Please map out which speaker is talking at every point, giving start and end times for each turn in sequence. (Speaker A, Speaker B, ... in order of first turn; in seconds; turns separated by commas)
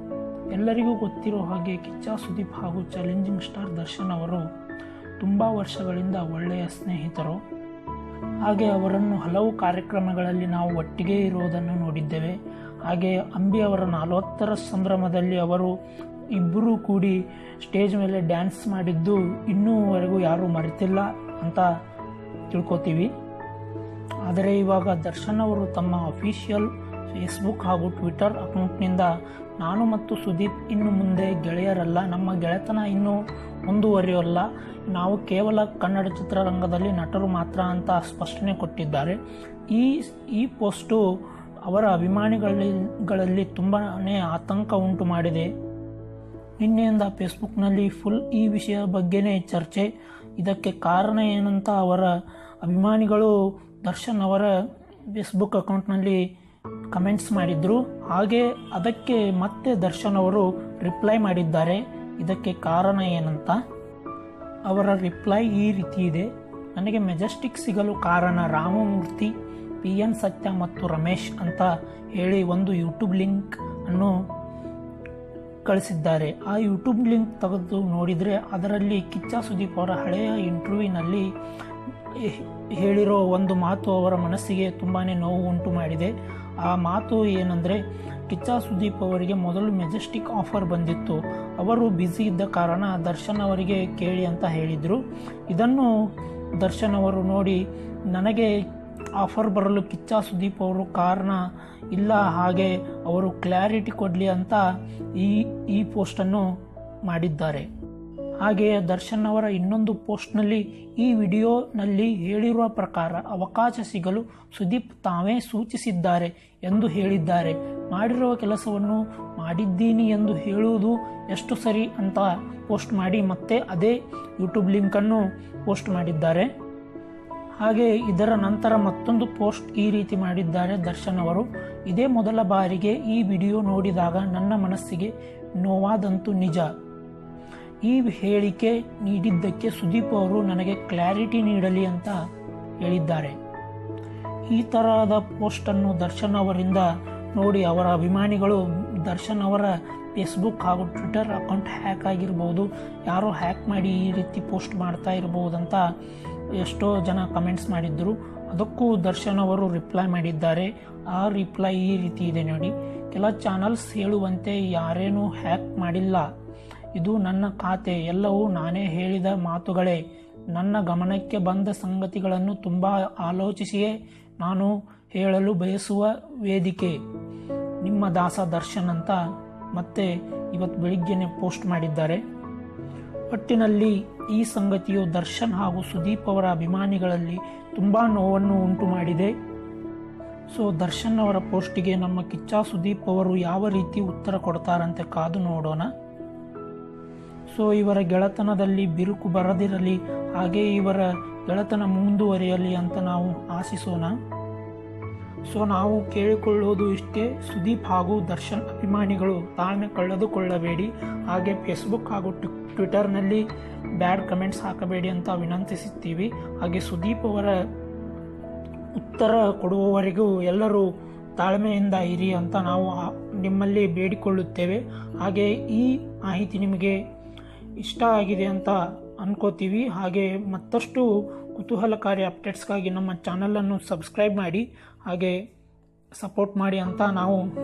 Speaker A: 0.5-4.5, Speaker A: 5.2-7.4, Speaker A: 8.4-15.7, Speaker A: 16.3-21.7, Speaker A: 22.5-23.1, Speaker A: 24.3-39.2, Speaker A: 39.7-41.0, Speaker A: 41.6-45.5, Speaker A: 46.6-52.1, Speaker A: 52.6-54.5, Speaker A: 55.1-56.2, Speaker A: 56.9-63.6, Speaker A: 64.7-74.1, Speaker A: 75.7-81.3, Speaker A: 82.1-95.9, Speaker A: 96.6-98.5, Speaker A: 99.2-106.5, Speaker A: 107.1-107.7, Speaker A: 108.4-126.5, Speaker A: 127.6-136.7, Speaker A: 137.8-142.2, Speaker A: 142.8-143.4, Speaker A: 144.5-155.8, Speaker A: 156.6-166.3, Speaker A: 166.9-170.0, Speaker A: 170.5-177.0, Speaker A: 177.8-179.2, Speaker A: 179.8-182.2, Speaker A: 183.3-189.3, Speaker A: 190.5-195.9, Speaker A: 197.5-204.2, Speaker A: 205.5-213.5, Speaker A: 214.0-217.6, Speaker A: 218.9-227.0, Speaker A: 227.8-235.4, Speaker A: 236.2-237.5